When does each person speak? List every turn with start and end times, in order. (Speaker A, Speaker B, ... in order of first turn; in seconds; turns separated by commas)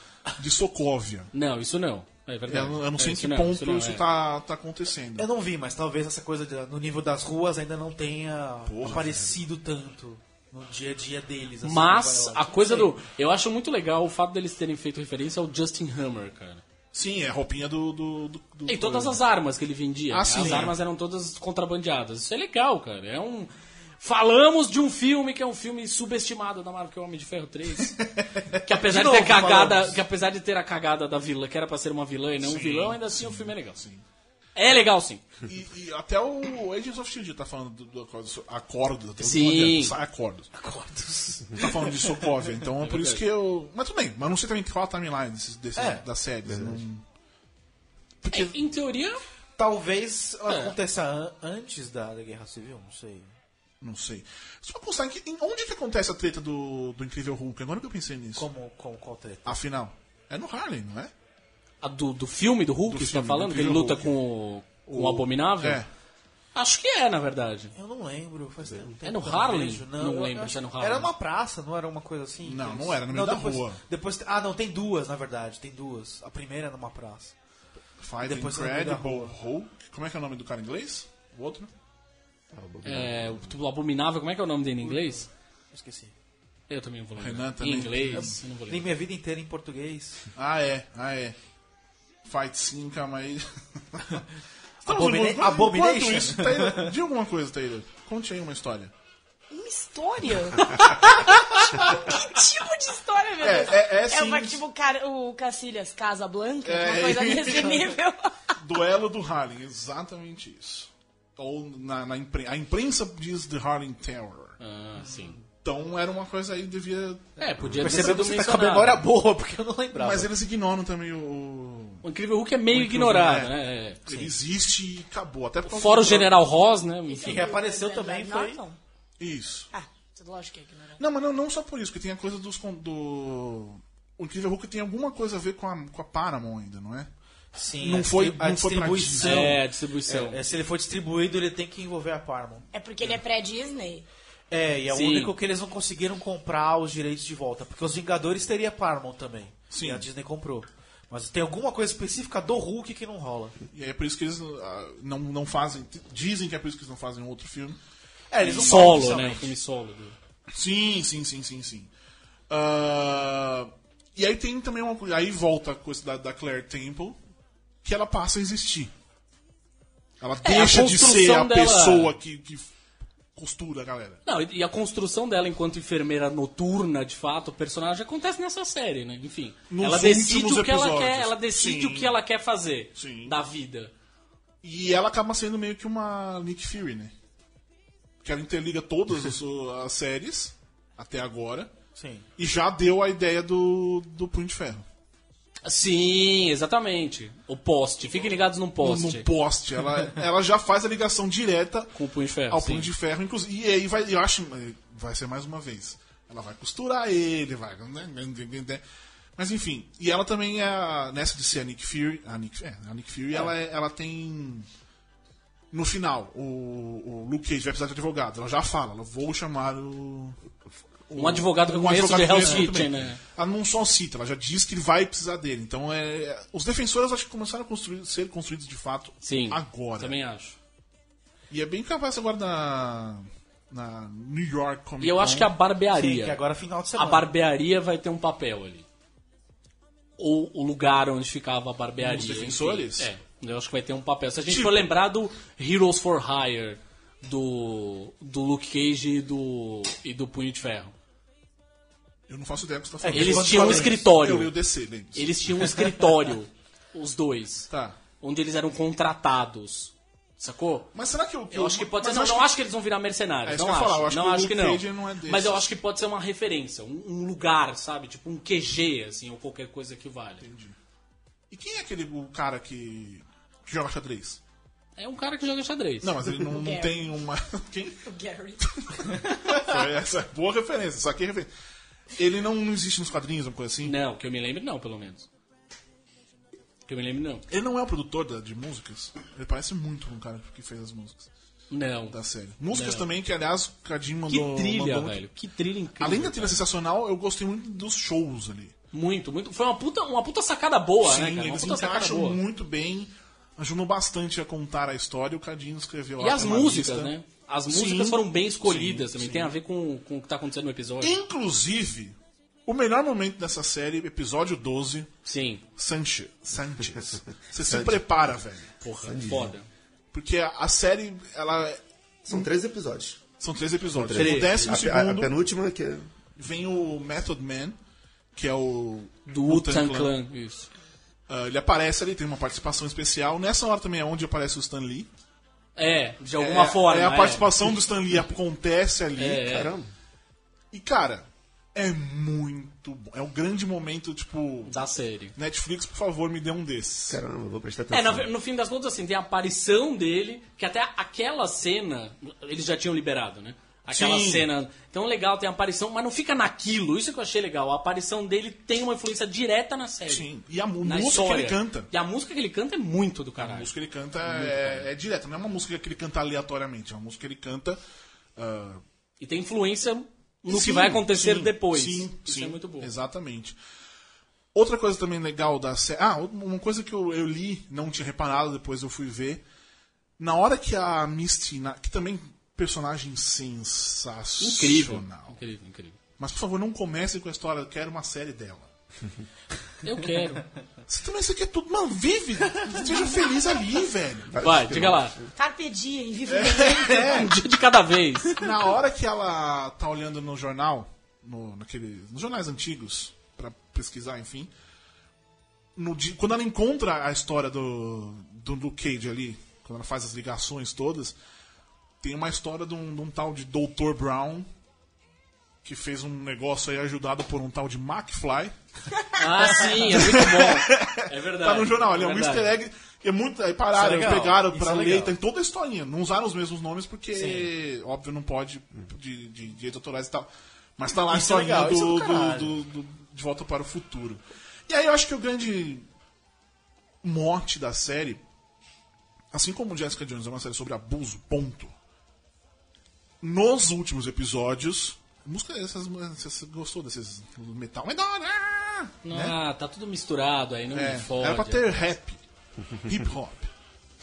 Speaker A: 0.4-1.3, Speaker B: 1.3-4.0, Speaker A: 2.5-5.3, Speaker C: 5.2-13.0, Speaker A: 8.7-9.4, Speaker B: 11.6-16.6, Speaker A: 16.9-19.2, Speaker B: 18.7-28.0, Speaker A: 20.1-20.8, Speaker C: 20.4-20.7, Speaker C: 28.5-30.0, Speaker B: 28.6-33.8, Speaker A: 32.4-34.0, Speaker B: 34.5-35.2, Speaker A: 35.5-40.5, Speaker B: 39.2-39.9, Speaker C: 40.5-42.2, Speaker A: 41.6-47.0, Speaker B: 42.8-43.2, Speaker C: 45.8-46.0, Speaker D: 46.5-46.8, Speaker A: 48.2-48.5, Speaker B: 48.3-49.2, Speaker C: 49.6-53.3, Speaker B: 50.5-50.7, Speaker A: 53.8-58.5, Speaker C: 58.4-59.6, Speaker A: 59.4-61.1, Speaker B: 61.8-65.8, Speaker A: 62.9-64.2, Speaker A: 64.9-65.9, Speaker B: 66.5-67.7, Speaker C: 67.7-77.3, Speaker B: 69.0-71.1, Speaker A: 72.4-73.8, Speaker A: 78.0-81.7, Speaker C: 78.2-79.3, Speaker D: 82.5-83.5, Speaker B: 82.8-85.3, Speaker C: 84.8-85.2, Speaker C: 85.7-86.1, Speaker B: 86.7-88.8, Speaker A: 87.2-88.4, Speaker C: 88.2-90.2, Speaker A: 90.3-91.3, Speaker A: 92.2-94.2, Speaker A: 94.8-98.9, Speaker C: 94.8-96.9, Speaker E: 99.5-108.3, Speaker A: 100.6-100.9, Speaker A: 103.4-104.6, Speaker A: 106.6-108.0, Speaker A: 108.6-114.6, Speaker B: 114.6-115.4, Speaker C: 115.0-115.3, Speaker A: 115.6-118.3, Speaker B: 117.4-119.0, Speaker C: 117.8-120.3, Speaker A: 119.9-122.0, Speaker B: 122.0-124.0, Speaker A: 122.7-123.5, Speaker A: 124.0-126.3, Speaker C: 124.1-124.3, Speaker B: 125.7-127.5, Speaker E: 127.1-128.8, Speaker C: 127.2-128.6, Speaker A: 129.2-129.7, Speaker E: 129.7-131.0, Speaker A: 131.0-137.1, Speaker C: 137.5-142.6, Speaker A: 137.8-139.6, Speaker B: 139.2-140.4, Speaker E: 142.7-144.1, Speaker C: 144.5-153.6, Speaker B: 144.9-145.3, Speaker A: 149.7-150.1, Speaker A: 153.7-157.8, Speaker C: 158.3-159.5, Speaker A: 158.4-159.4, Speaker B: 158.4-160.1, Speaker A: 160.5-161.9, Speaker A: 162.5-167.2, Speaker A: 167.8-168.9, Speaker A: 170.2-172.7, Speaker B: 170.4-172.1, Speaker A: 173.3-174.2, Speaker B: 174.2-183.9, Speaker A: 179.7-182.1, Speaker A: 182.9-183.3, Speaker A: 184.6-187.1, Speaker A: 188.2-191.7, Speaker C: 191.9-192.2, Speaker A: 192.4-194.8, Speaker B: 195.6-199.3, Speaker A: 198.8-208.8, Speaker B: 201.9-202.9, Speaker A: 209.4-214.7, Speaker A: 215.7-220.4, Speaker A: 221.1-230.2, Speaker B: 221.2-223.2, Speaker B: 229.2-230.6, Speaker A: 231.5-235.5, Speaker B: 235.0-236.4, Speaker C: 235.9-237.3, Speaker B: 236.9-238.8, Speaker B: 240.2-250.9, Speaker A: 242.0-243.1, Speaker A: 244.5-244.9, Speaker A: 252.3-255.5, Speaker C: 253.0-254.0, Speaker B: 253.1-254.5, Speaker B: 255.1-260.9, Speaker A: 257.7-258.0, Speaker A: 260.9-262.5, Speaker B: 261.5-270.4, Speaker A: 263.4-265.6, Speaker A: 270.4-270.8, Speaker A: 271.5-274.4, Speaker B: 275.0-276.1, Speaker A: 276.0-278.0, Speaker E: 276.3-277.0, Speaker E: 278.0-279.5, Speaker A: 278.6-281.5, Speaker A: 282.1-283.9, Speaker B: 283.8-285.3, Speaker B: 286.9-287.4, Speaker A: 287.5-291.3, Speaker B: 291.7-292.1, Speaker A: 292.1-295.2, Speaker B: 292.7-293.1, Speaker B: 294.3-296.6, Speaker A: 296.0-298.7, Speaker B: 298.9-302.4, Speaker A: 301.0-307.1, Speaker B: 306.2-311.1, Speaker A: 307.7-309.5, Speaker A: 311.0-312.1, Speaker A: 312.6-315.1, Speaker B: 315.2-315.6, Speaker A: 315.8-318.7, Speaker D: 317.7-318.0, Speaker B: 318.8-319.7, Speaker D: 319.0-319.5, Speaker A: 320.1-321.8, Speaker D: 322.2-323.2, Speaker A: 323.4-325.3, Speaker D: 323.9-326.1, Speaker B: 324.1-324.7, Speaker A: 326.4-327.8, Speaker A: 328.3-330.1, Speaker B: 329.3-330.7, Speaker A: 331.3-335.1, Speaker B: 335.8-337.7, Speaker A: 336.4-339.5, Speaker B: 339.2-339.7, Speaker D: 339.4-339.9, Speaker A: 340.7-344.8, Speaker B: 344.7-345.3, Speaker A: 345.3-347.2, Speaker D: 347.1-348.3, Speaker B: 347.9-360.2, Speaker A: 353.9-354.5, Speaker A: 360.1-361.9, Speaker B: 360.8-363.7, Speaker A: 363.4-367.8, Speaker B: 364.2-364.9, Speaker A: 368.4-368.8, Speaker B: 369.2-372.9, Speaker A: 370.5-373.6, Speaker A: 374.5-379.4, Speaker A: 380.2-385.4, Speaker B: 384.4-386.0, Speaker A: 386.2-388.7, Speaker B: 389.8-390.4, Speaker A: 390.9-394.3, Speaker D: 394.3-395.3, Speaker B: 394.4-395.1, Speaker E: 395.4-397.3, Speaker A: 396.3-397.3, Speaker B: 397.0-398.4, Speaker A: 398.4-404.5, Speaker A: 405.8-411.1, Speaker A: 412.0-414.5, Speaker A: 415.6-418.5, Speaker B: 419.1-422.5, Speaker A: 419.9-435.8, Speaker C: 423.7-425.1, Speaker C: 427.1-427.5, Speaker C: 431.1-432.6, Speaker A: 437.0-438.2, Speaker A: 439.3-441.7, Speaker A: 443.2-449.4, Speaker B: 449.0-451.7, Speaker A: 450.7-452.2, Speaker A: 452.8-453.5